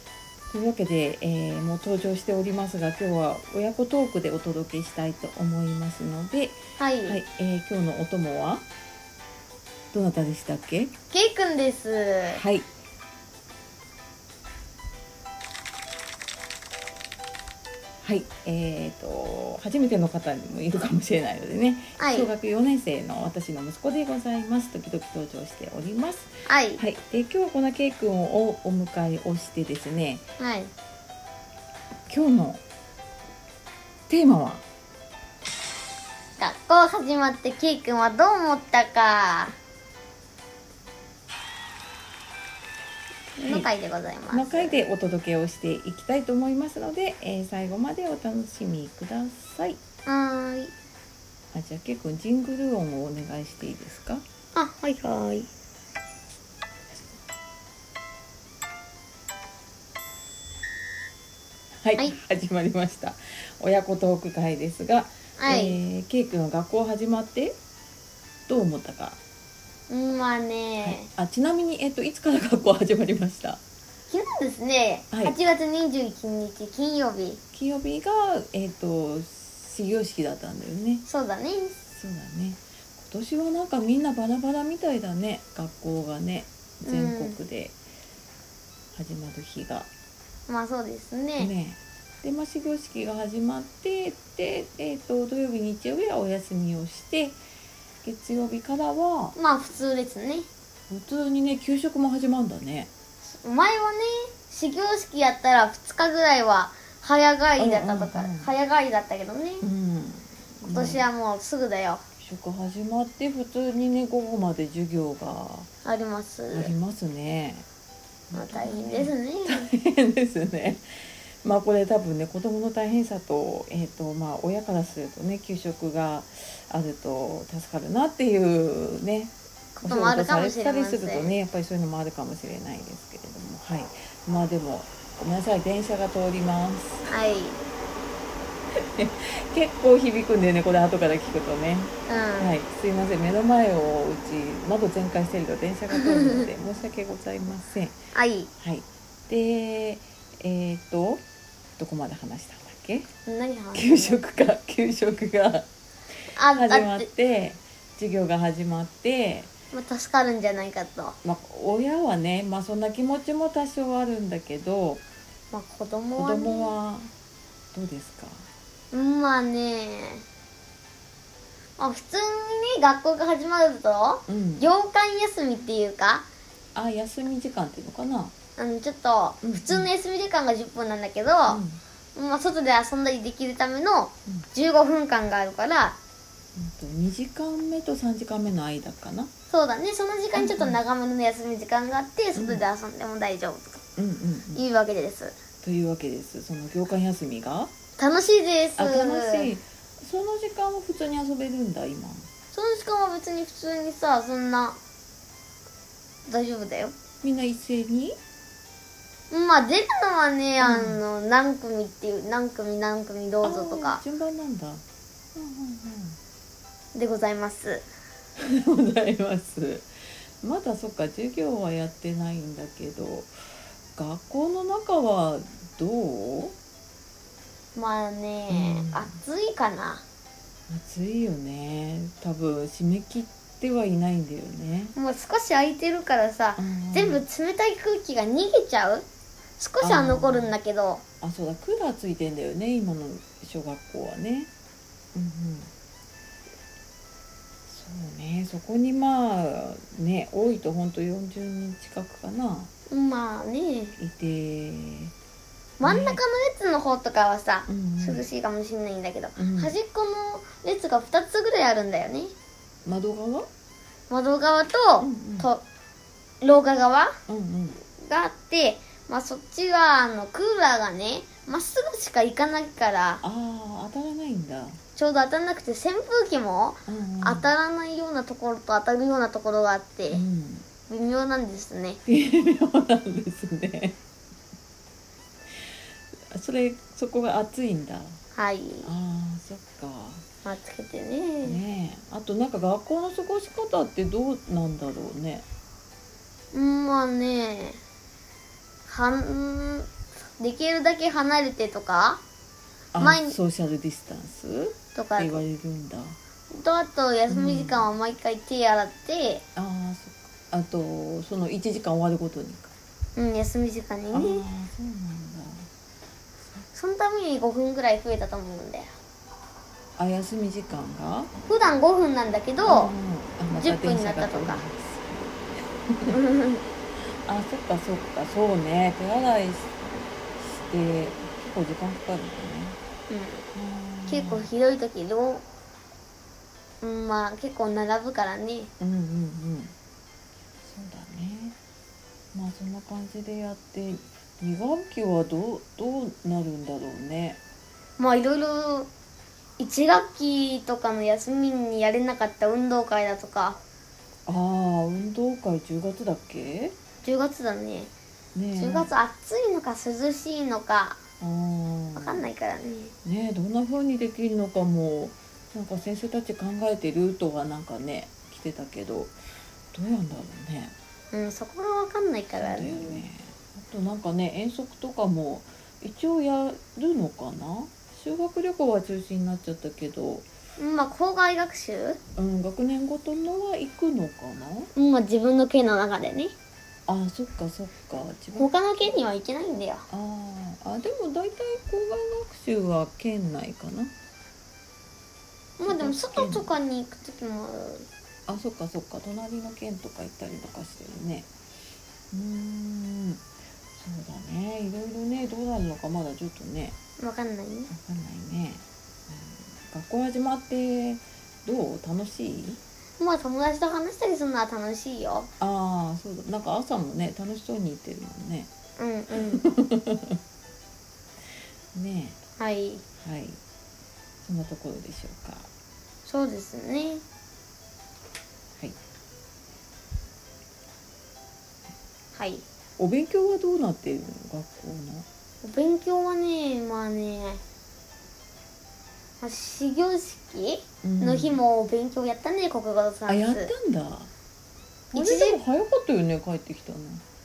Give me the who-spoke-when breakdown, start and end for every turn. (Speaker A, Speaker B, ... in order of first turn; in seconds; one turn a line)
Speaker A: 0.5-8.6
Speaker B: 6.8-7.2
Speaker A: 9.9-10.9
Speaker B: 11.1-12.4
Speaker A: 12.3-12.7
Speaker A: 18.0-30.2
Speaker B: 22.0-22.3
Speaker B: 26.5-26.8
Speaker B: 30.4-30.7
Speaker A: 32.1-32.6
Speaker A: 34.1-34.6
Speaker B: 36.4-39.5
Speaker B: 43.4-44.8
Speaker A: 44.3-49.8
Speaker B: 50.0-50.7
Speaker A: 51.5-54.2
Speaker B: 54.5-55.5
Speaker A: 61.8-67.5
Speaker B: 65.4-65.8
Speaker A: 68.5-69.2
Speaker B: 69.9-71.1
Speaker A: 70.8-73.6
Speaker B: 74.1-77.4
Speaker A: 75.1-75.3
Speaker A: 77.5-81.0
Speaker B: 81.1-81.8
Speaker A: 81.8-87.8
Speaker B: 86.8-87.4
Speaker A: 88.9-89.9
Speaker B: 90.5-91.5
Speaker A: 91.4-97.4
Speaker A: 98.0-99.3
Speaker B: 99.3-100.5
Speaker A: 100.9-102.9
Speaker B: 103.2-109.7
Speaker A: 107.6-108.5
Speaker A: 109.6-111.1
Speaker B: 110.7-112.0
Speaker A: 112.2-115.7
Speaker B: 115.8-116.7
Speaker A: 116.5-117.6
Speaker A: 118.3-120.8
Speaker B: 118.3-119.7
Speaker A: 121.4-137.1
Speaker B: 129.8-131.3
Speaker B: 137.1-137.6
Speaker A: 138.7-147.9
Speaker B: 142.1-142.6
Speaker B: 145.9-146.5
Speaker B: 148.1-148.5
Speaker A: 148.6-151.2
Speaker A: 151.8-153.1
Speaker B: 153.2-154.2
Speaker A: 153.7-155.7
Speaker B: 156.3-157.1
Speaker A: 156.5-159.5
Speaker B: 159.7-161.2
Speaker A: 161.2-165.0
Speaker B: 165.5-166.7
Speaker A: 166.2-167.1
Speaker A: 167.7-168.5
Speaker B: 168.9-170.2
Speaker B: 171.8-176.2
Speaker A: 174.3-174.7
Speaker A: 176.7-178.3
Speaker B: 178.6-181.6
Speaker A: 179.4-179.9
Speaker A: 181.5-181.8
Speaker B: 182.2-186.0
Speaker A: 186.5-189.3
Speaker B: 189.5-193.8
Speaker A: 190.3-190.8
Speaker A: 192.3-192.6
Speaker A: 193.9-194.6
Speaker B: 194.5-195.3
Speaker A: 195.6-197.7
Speaker B: 198.0-199.5
Speaker A: 198.8-202.3
Speaker B: 202.5-204.8
Speaker B: 206.3-206.9
Speaker A: 207.2-208.2
Speaker B: 209.3-214.0
Speaker A: 210.6-211.0
Speaker A: 213.4-214.8
Speaker A: 215.3-216.2
Speaker B: 216.9-217.8
Speaker A: 218.4-219.9
Speaker A: 220.4-223.3
Speaker A: 223.9-226.5
Speaker B: 227.7-230.0
Speaker A: 228.5-229.2
Speaker A: 230.7-234.9
Speaker B: 234.9-239.1
Speaker A: 236.6-237.2
Speaker B: 239.6-241.0
Speaker A: 239.8-240.5
Speaker A: 241.2-244.5
Speaker A: 245.1-245.7
Speaker A: 247.7-252.7
Speaker B: 252.9-254.0
Speaker A: 254.0-255.1
Speaker B: 255.8-262.3
Speaker A: 255.8-256.2
Speaker A: 257.7-258.3
Speaker A: 259.4-259.7
Speaker A: 262.9-263.5
Speaker B: 264.1-265.6
Speaker A: 265.0-265.5
Speaker B: 266.4-267.2
Speaker A: 267.3-267.8
Speaker B: 268.0-273.2
Speaker A: 273.2-274.8
Speaker B: 275.0-280.2
Speaker A: 276.9-277.5
Speaker A: 280.1-280.6
Speaker B: 280.9-282.0
Speaker A: 282.1-283.9
Speaker A: 286.3-288.2
Speaker B: 288.3-288.9
Speaker A: 288.8-290.2
Speaker B: 290.4-291.6
Speaker A: 291.4-295.4
Speaker B: 296.5-297.8
Speaker B: 298.9-302.2
Speaker A: 302.9-306.2
Speaker B: 303.0-303.4
Speaker B: 304.9-305.4
Speaker B: 306.5-309.4
Speaker A: 307.3-307.9
Speaker A: 309.6-312.7
Speaker B: 313.1-314.4
Speaker A: 314.1-315.7
Speaker B: 316.7-318.9
Speaker A: 320.0-321.3
Speaker B: 321.4-322.9
Speaker A: 322.6-326.1
Speaker B: 323.6-324.6
Speaker B: 326.1-326.6
Speaker A: 327.0-332.8
Speaker B: 333.1-333.4
Speaker A: 333.5-334.5
Speaker B: 334.1-335.4
Speaker B: 336.8-338.7
Speaker A: 338.8-339.7
Speaker A: 340.6-341.6
Speaker A: 342.3-347.4
Speaker B: 348.0-348.9
Speaker B: 349.6-353.6
Speaker A: 354.3-356.7
Speaker B: 357.0-357.9
Speaker A: 358.3-358.9
Speaker B: 358.5-361.0
Speaker A: 361.2-362.2
Speaker B: 361.9-362.9
Speaker A: 363.0-369.1
Speaker A: 369.7-370.7
Speaker B: 371.1-373.0
Speaker A: 372.3-380.2
Speaker B: 380.6-382.0
Speaker A: 382.2-384.7
Speaker B: 384.7-386.3
Speaker A: 386.9-388.5
Speaker B: 388.3-389.8
Speaker A: 389.9-393.9
Speaker B: 395.6-397.9
Speaker A: 395.6-396.5
Speaker A: 398.3-401.3
Speaker A: 402.1-403.2
Speaker A: 403.8-406.8
Speaker B: 407.0-407.7
Speaker A: 407.7-412.6
Speaker B: 413.0-415.3
Speaker A: 415.4-418.5
Speaker B: 418.8-419.4
Speaker A: 419.2-420.2
Speaker A: 421.7-422.2
Speaker B: 422.4-422.8
Speaker A: 423.0-423.4
Speaker A: 424.2-425.5
Speaker B: 426.1-427.0
Speaker B: 432.1-432.4
Speaker A: 432.8-435.1
Speaker B: 435.4-437.4
Speaker B: 439.2-443.5
Speaker A: 440.8-441.4
Speaker A: 443.1-444.1
Speaker A: 444.9-447.0
Speaker B: 444.9-445.4